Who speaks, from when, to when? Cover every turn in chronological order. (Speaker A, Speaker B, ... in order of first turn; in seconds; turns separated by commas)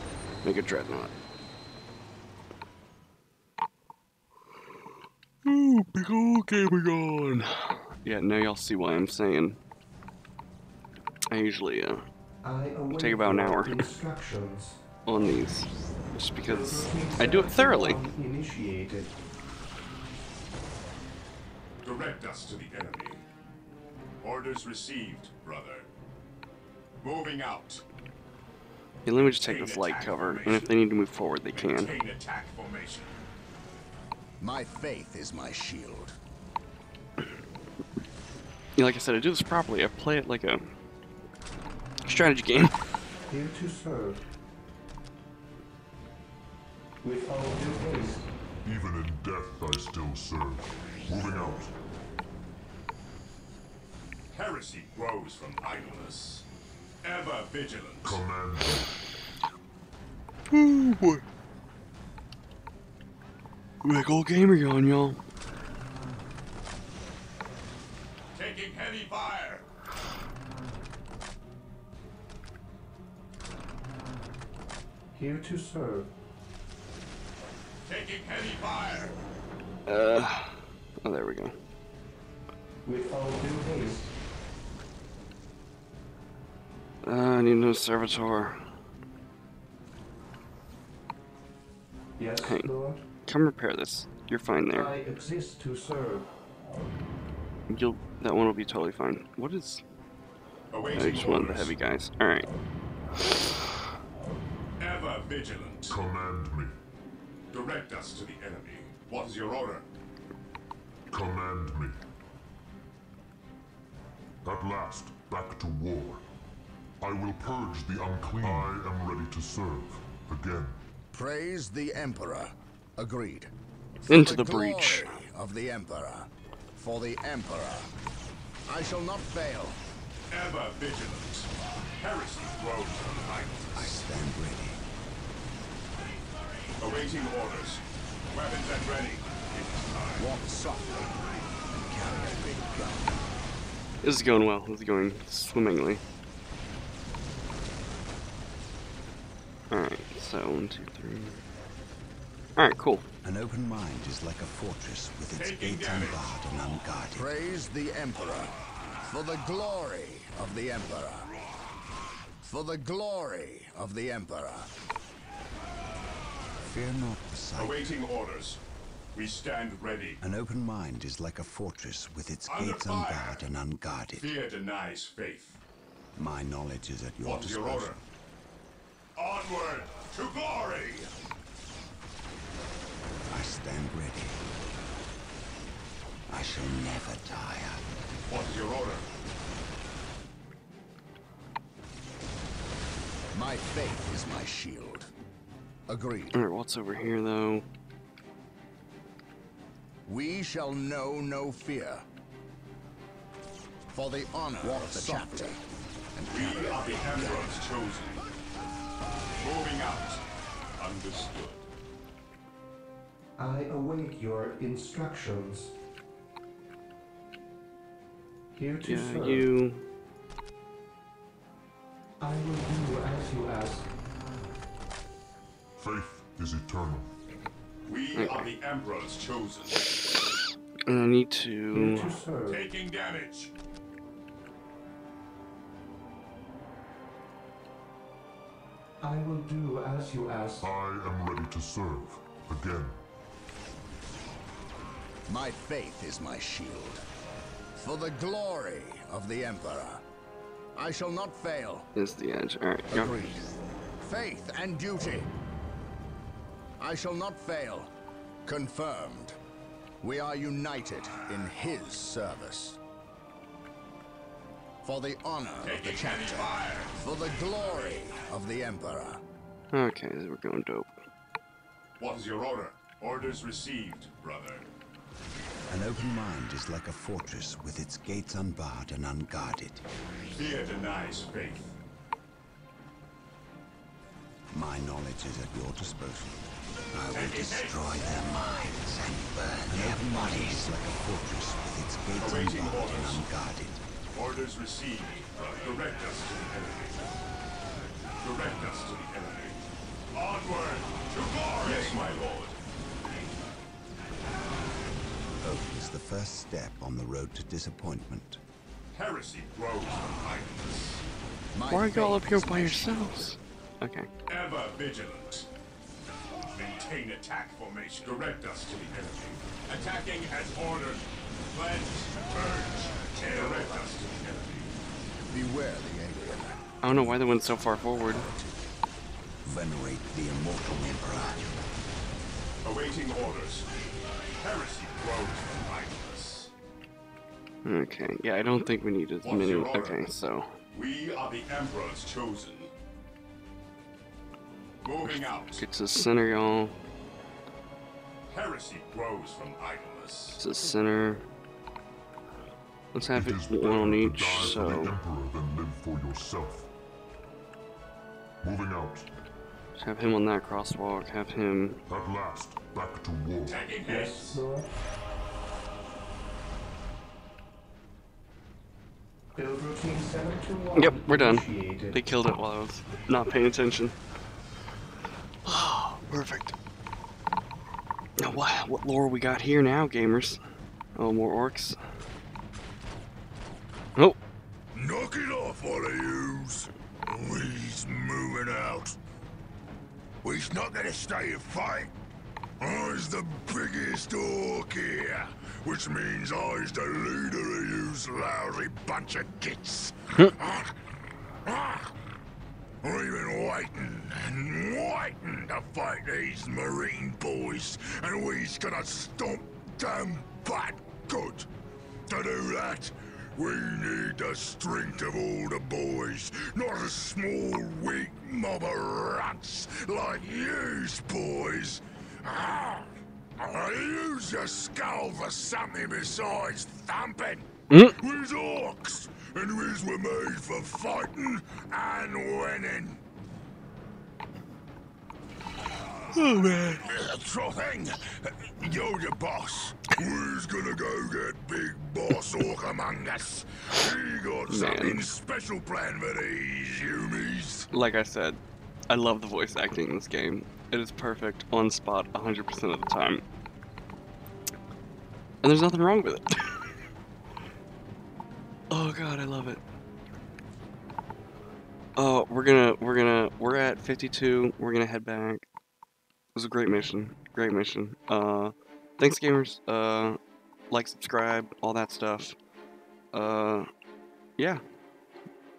Speaker A: 0.4-1.1, Speaker A: 5.4-9.6, Speaker A: 11.3-12.0, Speaker B: 12.4-14.8, Speaker A: 12.9-13.9, Speaker A: 15.1-18.0, Speaker B: 16.5-19.1, Speaker C: 21.8-23.2, Speaker C: 24.2-25.9, Speaker C: 27.0-27.8, Speaker A: 29.1-31.9, Speaker C: 29.4-30.7, Speaker C: 31.5-33.2, Speaker D: 34.4-36.1, Speaker A: 38.8-40.6, Speaker A: 42.0-42.8, Speaker B: 43.3-44.2, Speaker B: 47.0-48.3, Speaker E: 48.6-51.7, Speaker C: 54.3-56.5, Speaker C: 57.0-58.2, Speaker E: 58.0-58.9, Speaker A: 60.5-61.2, Speaker A: 63.8-65.2, Speaker C: 68.3-69.6, Speaker B: 75.1-76.1, Speaker C: 77.8-79.2, Speaker A: 79.9-81.6, Speaker B: 82.8-84.1, Speaker A: 87.0-88.7, Speaker B: 92.2-93.0, Speaker A: 92.4-92.7, Speaker A: 93.2-94.9, Speaker B: 94.7-96.3, Speaker A: 97.7-99.8, Speaker C: 100.7-101.7, Speaker A: 100.9-102.5, Speaker C: 104.8-106.0, Speaker E: 105.9-106.7, Speaker C: 107.5-109.8, Speaker E: 111.1-112.0, Speaker E: 114.4-116.2, Speaker E: 117.0-120.8, Speaker D: 121.1-123.5, Speaker D: 124.0-127.9, Speaker A: 124.1-125.1, Speaker D: 128.7-129.8, Speaker C: 130.3-134.1, Speaker F: 133.7-134.8, Speaker C: 136.8-140.3, Speaker D: 140.2-143.2, Speaker A: 144.0-146.0, Speaker A: 149.7-151.4, Speaker A: 152.6-153.1, Speaker F: 153.2-157.3, Speaker C: 155.3-156.3, Speaker D: 157.1-161.3, Speaker D: 162.4-164.7, Speaker F: 166.6-168.0, Speaker C: 167.6-168.6, Speaker C: 169.1-170.2, Speaker F: 170.2-174.3, Speaker C: 172.5-173.5, Speaker C: 174.1-175.6, Speaker F: 176.1-178.0, Speaker C: 177.2-178.0, Speaker C: 179.2-181.1, Speaker F: 183.3-184.4, Speaker F: 186.3-187.8, Speaker C: 188.3-189.1, Speaker D: 193.3-195.1, Speaker D: 195.9-196.4, Speaker A: 196.3-197.7, Speaker D: 200.1-202.0, Speaker D: 203.9-205.6, Speaker F: 204.7-205.2, Speaker D: 206.1-207.6, Speaker C: 206.3-208.2, Speaker C: 209.4-210.2, Speaker C: 210.8-211.6, Speaker B: 213.4-215.7, Speaker B: 218.5-219.5, Speaker A: 218.8-219.9, Speaker B: 222.2-223.9, Speaker E: 225.8-227.1, Speaker C: 227.9-230.0, Speaker A: 228.1-228.5, Speaker A: 230.9-232.2, Speaker B: 231.7-232.7, Speaker C: 232.4-233.5, Speaker B: 239.0-240.6, Speaker E: 240.6-243.0, Speaker D: 245.3-247.0, Speaker D: 247.7-250.0, Speaker D: 250.8-251.9, Speaker A: 251.9-253.3, Speaker D: 252.9-253.4, Speaker D: 254.0-255.3, Speaker D: 256.8-257.9, Speaker D: 258.4-259.4, Speaker D: 260.0-262.8, Speaker D: 264.8-269.2, Speaker C: 265.6-267.0, Speaker A: 269.7-271.0, Speaker C: 272.0-274.6, Speaker F: 275.7-279.8, Speaker C: 280.3-281.8, Speaker F: 284.5-293.8, Speaker C: 287.1-287.8, Speaker C: 292.2-293.2, Speaker C: 294.1-297.1, Speaker C: 298.2-299.6, Speaker C: 300.1-302.6, Speaker F: 305.4-308.4, Speaker C: 308.9-311.0, Speaker D: 311.5-313.3, Speaker A: 311.7-314.1, Speaker C: 314.3-315.5, Speaker C: 316.5-324.7, Speaker D: 325.3-328.7, Speaker A: 326.8-328.3, Speaker F: 329.4-331.6, Speaker C: 332.6-333.7, Speaker C: 334.4-336.5, Speaker A: 337.6-340.5, Speaker C: 339.2-340.0, Speaker C: 340.7-342.7, Speaker C: 344.8-345.6, Speaker A: 345.0-346.8, Speaker C: 348.3-350.4, Speaker A: 350.4-351.2, Speaker A: 352.9-354.9, Speaker E: 353.1-356.7, Speaker E: 358.4-359.1, Speaker A: 359.8-361.8, Speaker E: 361.9-363.7, Speaker C: 363.4-364.4, Speaker B: 363.8-364.7, Speaker B: 369.3-372.0, Speaker A: 370.8-373.9, Speaker A: 375.4-376.6, Speaker A: 378.2-380.4, Speaker A: 380.9-381.8, Speaker G: 384.7-389.0, Speaker G: 390.2-391.9, Speaker G: 392.6-400.7, Speaker G: 401.4-401.9, Speaker G: 402.8-411.5, Speaker G: 412.1-433.0, Speaker G: 436.0-447.7, Speaker A: 436.2-436.6, Speaker A: 444.5-445.1, Speaker A: 447.7-453.2, Speaker A: 455.4-456.8, Speaker A: 458.7-459.6, Speaker A: 461.9-465.4, Speaker A: 466.3-470.2, Speaker A: 470.7-472.3, Speaker A: 473.1-473.7, Speaker A: 474.4-474.6